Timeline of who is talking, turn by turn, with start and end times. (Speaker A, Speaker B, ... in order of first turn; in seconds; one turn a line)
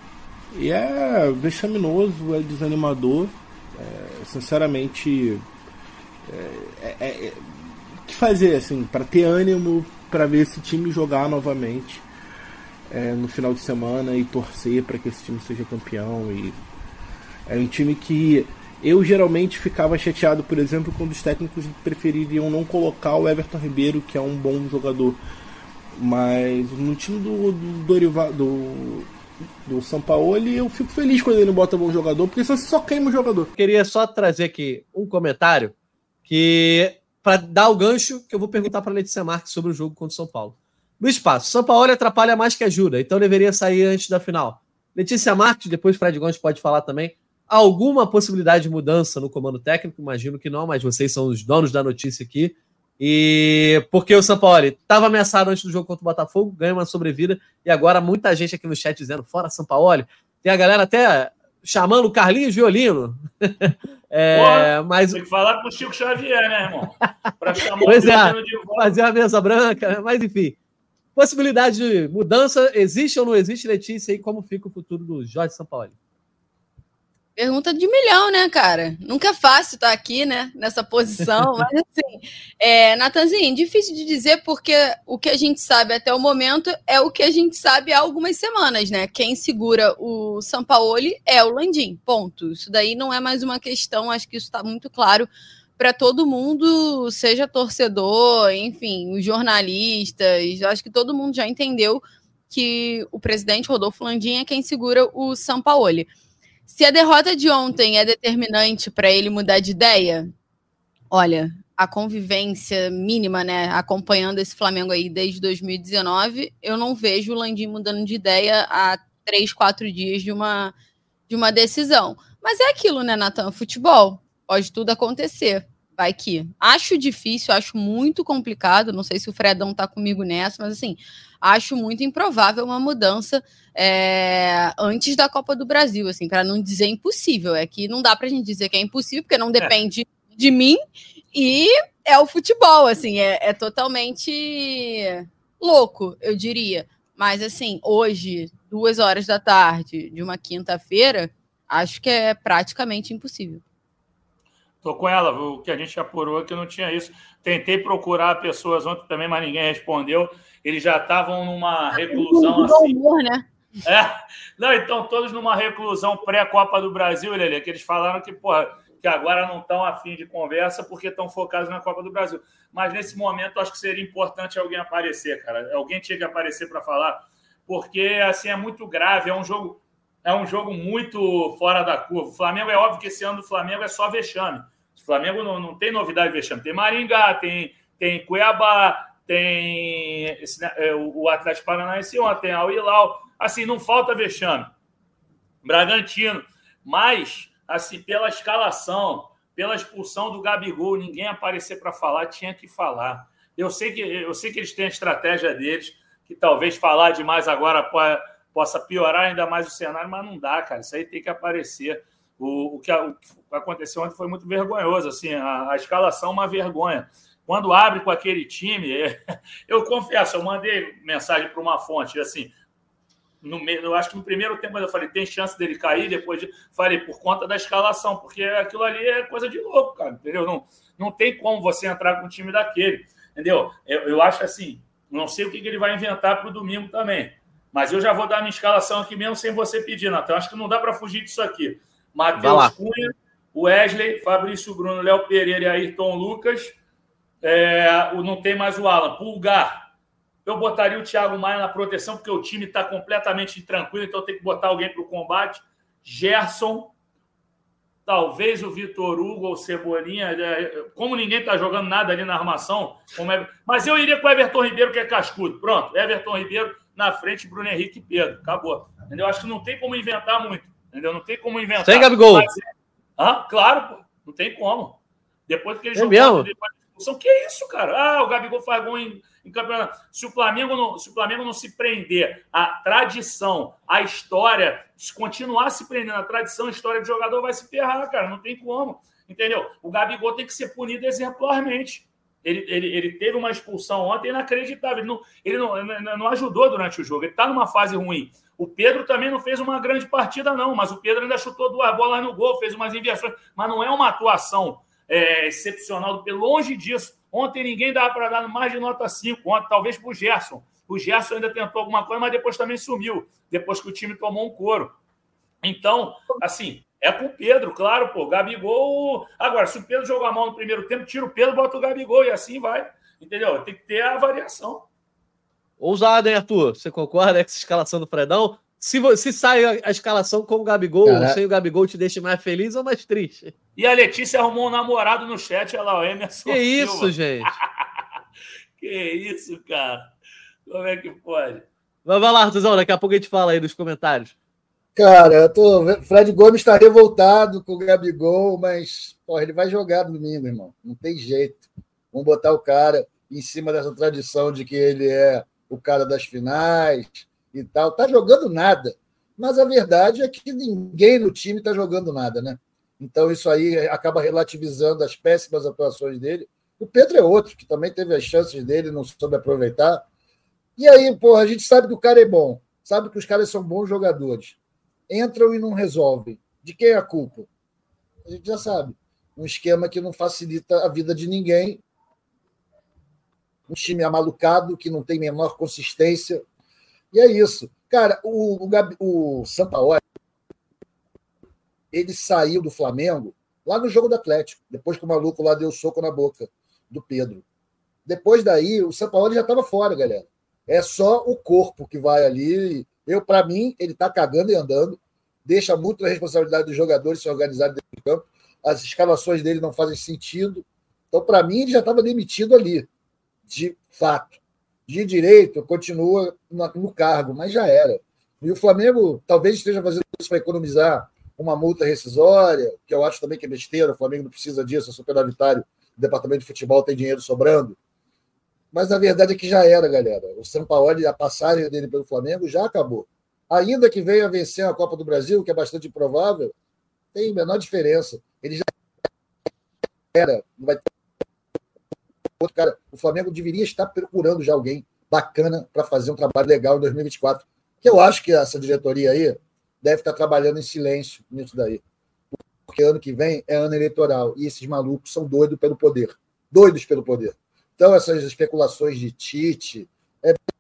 Speaker A: 0.5-5.4
Speaker A: 6.2-12.1
Speaker A: 12.9-16.6
Speaker A: 17.5-25.2
Speaker A: 25.9-29.1
Speaker A: 29.6-33.5
Speaker B: 33.5-35.7
Speaker B: 36.2-65.2
Speaker C: 64.3-69.0
Speaker B: 67.6-70.6
Speaker B: 71.2-76.0
Speaker D: 77.3-106.1
Speaker D: 106.7-110.3
Speaker D: 111.1-120.7
Speaker D: 121.3-140.8
Speaker D: 141.3-153.6
Speaker C: 154.8-163.0
Speaker D: 161.9-163.4
Speaker C: 163.8-194.7
Speaker C: 195.6-219.2
Speaker C: 219.7-222.5
Speaker C: 223.4-246.8
Speaker B: 242.4-242.7
Speaker C: 247.4-249.8
Speaker C: 250.4-256.9
Speaker C: 258.1-272.6
Speaker B: 271.8-272.5
Speaker C: 273.2-314.9
Speaker B: 275.9-276.5
Speaker C: 315.6-324.9
Speaker B: 325.8-333.5
Speaker E: 331.0-331.4
Speaker C: 333.8-337.1
Speaker B: 336.4-337.5
Speaker C: 338.8-340.1
Speaker C: 340.7-341.6
Speaker B: 342.1-344.3
Speaker E: 344.9-370.0
Speaker E: 370.8-374.6
Speaker E: 375.1-377.5
Speaker E: 378.2-381.8
Speaker E: 383.7-386.4
Speaker E: 387.1-390.0
Speaker E: 391.9-397.4
Speaker E: 398.1-412.9
Speaker E: 413.5-427.8
Speaker E: 428.7-436.5
Speaker E: 437.1-438.7
Speaker E: 440.1-440.8
Speaker E: 442.4-451.8
Speaker E: 452.6-460.4